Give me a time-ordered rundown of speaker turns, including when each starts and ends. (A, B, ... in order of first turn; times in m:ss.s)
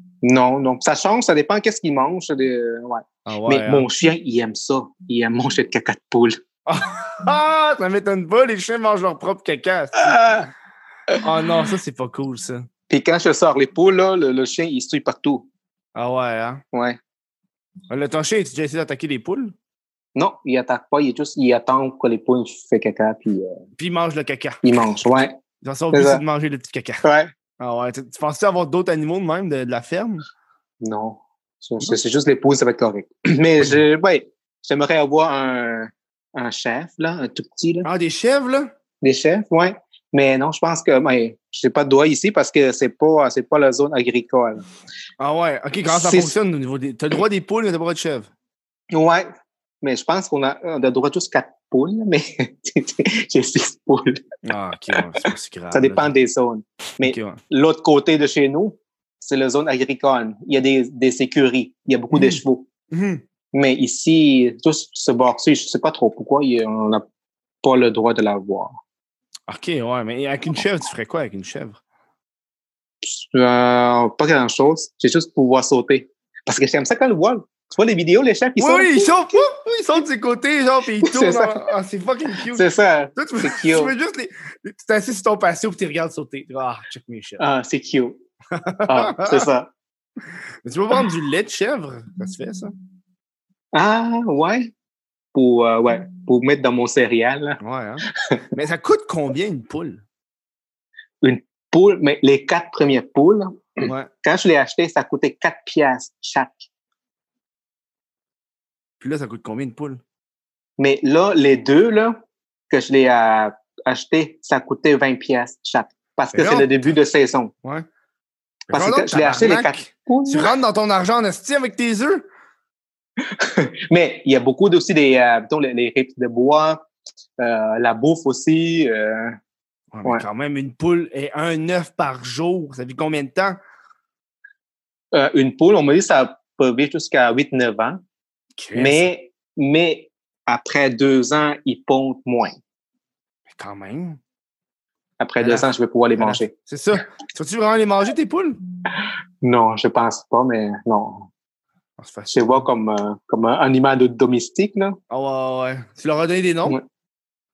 0:00.2-0:06.4 A
0:03.2-0:03.9 B
0:06.7-0:10.3 B
0:10.0-0:10.5 A
0:11.2-0:12.7 B
0:12.9-0:15.5 A
0:16.0-0:16.6 B
0:16.7-0:17.0 A
0:17.9-0:19.5 B
0:20.2-0:23.6 A
0:23.8-0:24.8 B
0:24.6-0:25.4 A
0:25.6-0:27.1 B
0:25.9-0:26.2 A
0:27.0-0:27.3 A
0:27.6-0:30.2 B
0:30.8-0:37.9 A
0:37.8-0:38.7 B
0:39.0-0:44.6 A
0:45.2-0:48.3 B
0:45.9-0:46.3 A
0:48.9-0:49.3 A
0:49.8-0:54.2 A
0:54.4-0:56.1 B
0:55.7-1:02.7 A
0:57.0-0:57.4 B
1:02.1-1:02.4 B
1:02.9-1:03.2 B
1:03.5-1:07.0 A
1:07.6-1:08.7 A
1:09.5-1:11.8 B
1:13.0-1:19.4 A
1:18.6-1:27.4 B
1:21.0-1:21.6 A
1:22.5-1:23.9 A
1:27.4-1:28.2 A
1:28.5-1:29.5 B
1:28.8-1:29.7 A
1:30.6-1:32.7 B
1:33.7-1:34.7 A
1:35.3-1:37.6 A
1:37.6-1:40.0 B
1:38.1-1:38.4 A
1:41.2-1:46.7 A
1:43.8-1:44.1 B
1:49.0-1:50.0 B
1:50.8-1:57.5 A
1:56.3-1:56.9 B
1:58.7-2:00.5 A
1:58.7-2:02.2 B
2:03.3-2:06.8 A
2:07.4-2:09.4 A
2:09.9-2:13.6 B
2:15.1-2:18.0 A
2:18.6-2:19.1 B
2:18.8-2:22.5 A
2:23.5-2:24.2 B
2:25.2-2:26.5 A
2:25.4-2:28.6 B
2:29.4-2:31.3 A
2:32.0-2:32.7 B
2:32.3-2:35.0 A
2:35.1-2:36.8 B